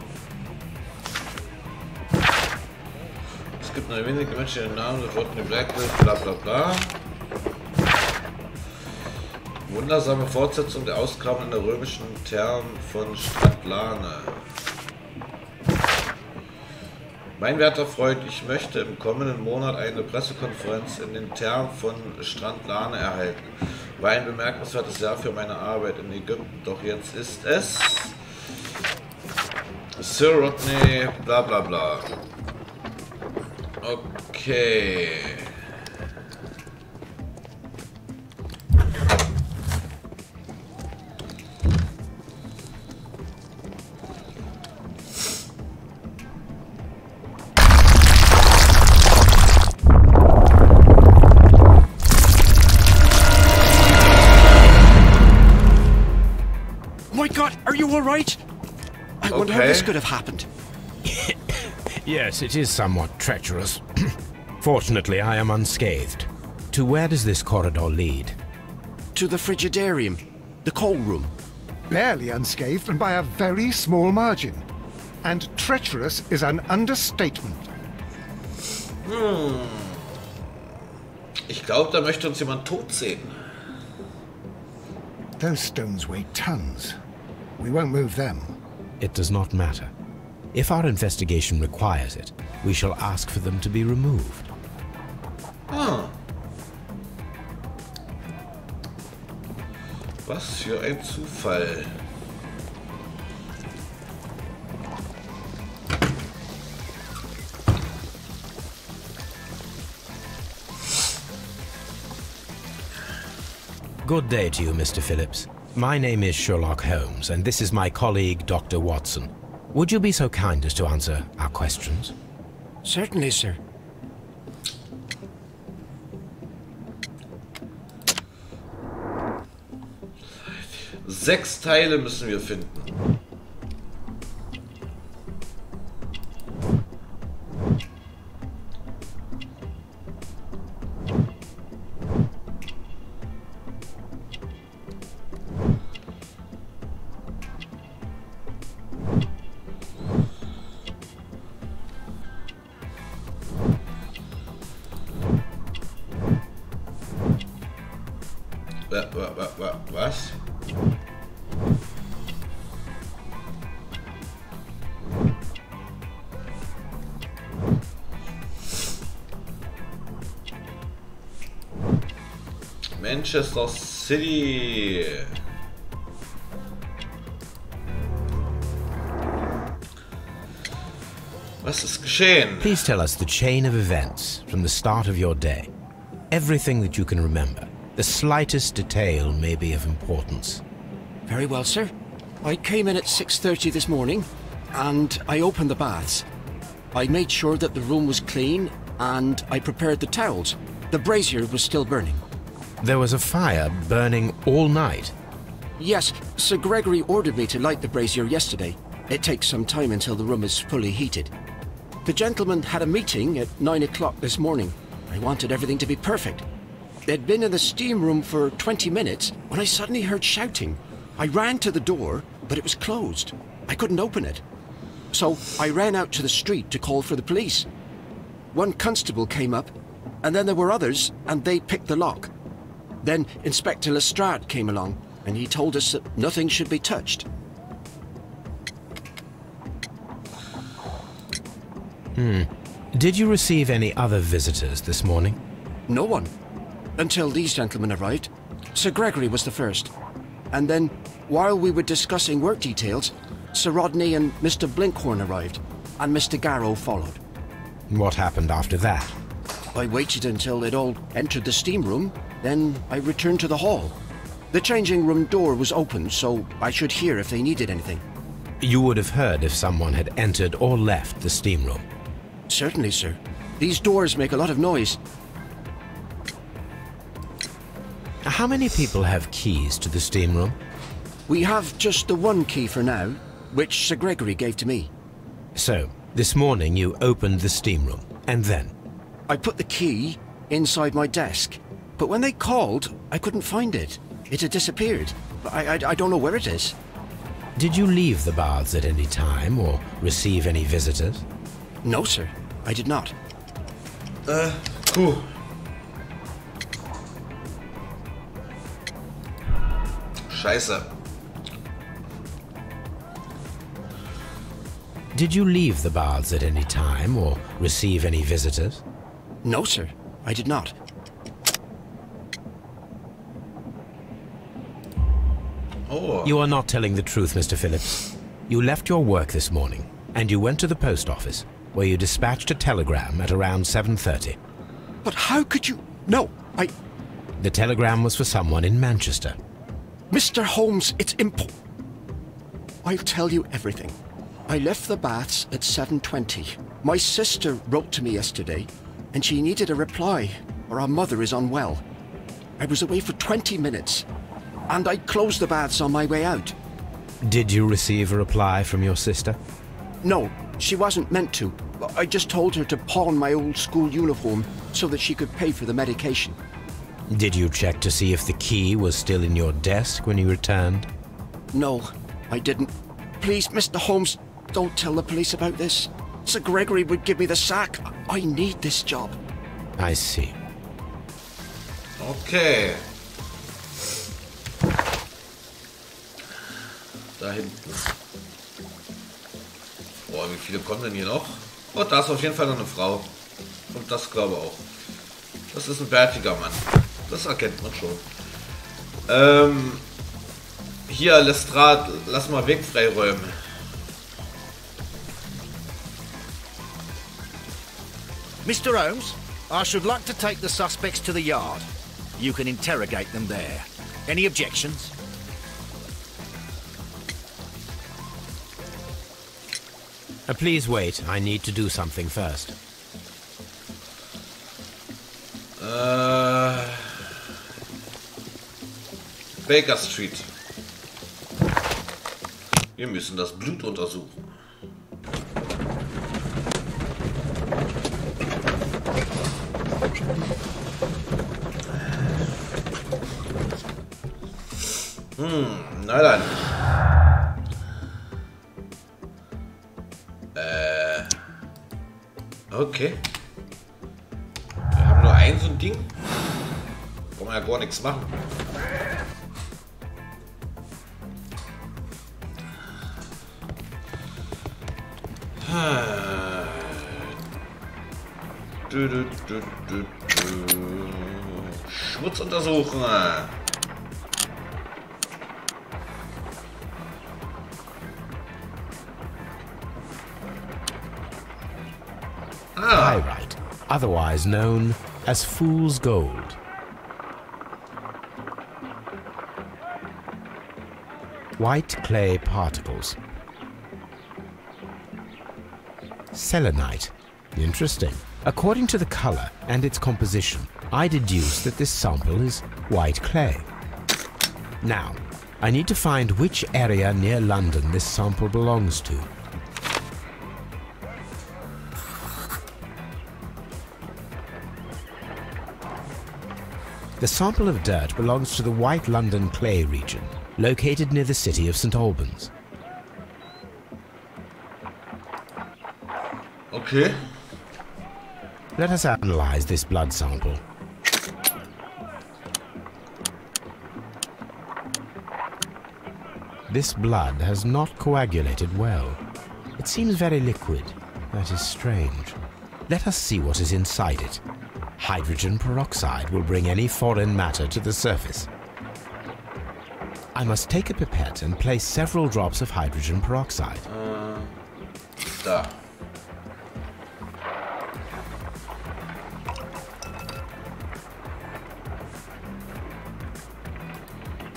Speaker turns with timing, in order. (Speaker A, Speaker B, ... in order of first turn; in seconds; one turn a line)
Speaker A: 3.6-7.0
Speaker A: 9.7-14.4
Speaker A: 17.4-23.4
Speaker A: 24.0-28.2
Speaker A: 30.0-32.1
Speaker A: 33.8-35.6
Speaker B: 57.1-58.4
Speaker B: 59.2-60.5
Speaker A: 59.3-59.9
Speaker C: 61.0-68.4
Speaker B: 69.1-71.3
Speaker D: 71.9-74.6
Speaker D: 75.2-77.6
Speaker A: 79.0-80.1
Speaker A: 81.5-83.3
Speaker D: 85.4-87.0
Speaker D: 87.6-88.6
Speaker C: 89.0-89.9
Speaker C: 90.5-94.5
Speaker A: 95.7-96.1
Speaker A: 100.2-101.9
Speaker C: 114.0-122.1
Speaker B: 122.8-123.6
Speaker A: 130.4-132.9
Speaker A: 158.9-160.4
Speaker A: 173.0-175.3
Speaker A: 181.6-182.9
Speaker C: 182.6-185.7
Speaker C: 186.3-190.6
Speaker B: 191.3-196.3
Speaker B: 196.9-202.2
Speaker C: 202.8-205.1
Speaker B: 205.8-211.3
Speaker B: 212.1-216.4
Speaker B: 217.1-224.4
Speaker B: 225.1-227.7
Speaker B: 228.5-232.3
Speaker B: 233.0-237.2
Speaker C: 242.2-245.4
Speaker B: 245.9-246.3
Speaker B: 247.0-249.9
Speaker B: 250.5-257.2
Speaker C: 257.9-259.1
Speaker B: 259.7-263.9
Speaker B: 264.5-268.0
Speaker C: 268.6-271.9
Speaker B: 272.5-275.0
Speaker C: 278.2-280.6
Speaker B: 281.3-284.9
Speaker C: 285.6-288.7
Speaker B: 289.3-296.8
Speaker C: 297.6-301.2
Speaker B: 301.8-303.1
Speaker A: 304.2-305.3
Speaker A: 310.3-310.9
Speaker C: 315.1-318.8
Speaker B: 319.4-320.8
Speaker A: 325.9-326.4
Speaker C: 326.2-334.4
Speaker B: 335.0-336.7
Speaker C: 337.4-339.4
Speaker B: 340.1-341.5
Speaker B: 342.8-344.0
Speaker B: 344.5-351.8
Speaker B: 352.6-354.1
Speaker B: 354.7-356.6
Speaker C: 357.2-359.4
Speaker B: 360.0-366.4
Speaker C: 367.1-370.9
Speaker B: 371.5-379.2
Speaker C: 379.8-380.4
Speaker A: 382.0-382.8
Speaker A: 387.2-387.9
Speaker A: 390.1-393.1
Speaker A: 393.7-394.6
Speaker A: 395.5-398.1
Speaker A: 399.1-399.9
Speaker A: 400.9-403.4
Speaker E: 408.4-414.9
Speaker C: 420.3-422.5
Speaker A: 425.6-427.2
Speaker A: 429.4-430.3
Speaker A: 432.8-434.2
Speaker A: 445.1-446.4
Speaker A: 450.4-451.1
Speaker A: 452.5-453.0
Speaker A: 454.7-455.9
Speaker A: 457.1-458.2
Speaker A: 465.4-467.1
Speaker A: 468.7-473.4
Speaker A: 482.6-483.1
Speaker C: 482.7-486.4
Speaker C: 491.4-493.0
Speaker C: 496.1-503.5
Speaker C: 504.6-509.1
Speaker C: 517.0-522.3
Speaker A: 526.5-527.0
Speaker C: 528.5-530.4
Speaker C: 536.5-539.0
Speaker C: 539.6-544.2
Speaker C: 544.8-548.3
Speaker C: 550.1-553.6
Speaker A: 553.6-554.3
Speaker A: 555.2-555.5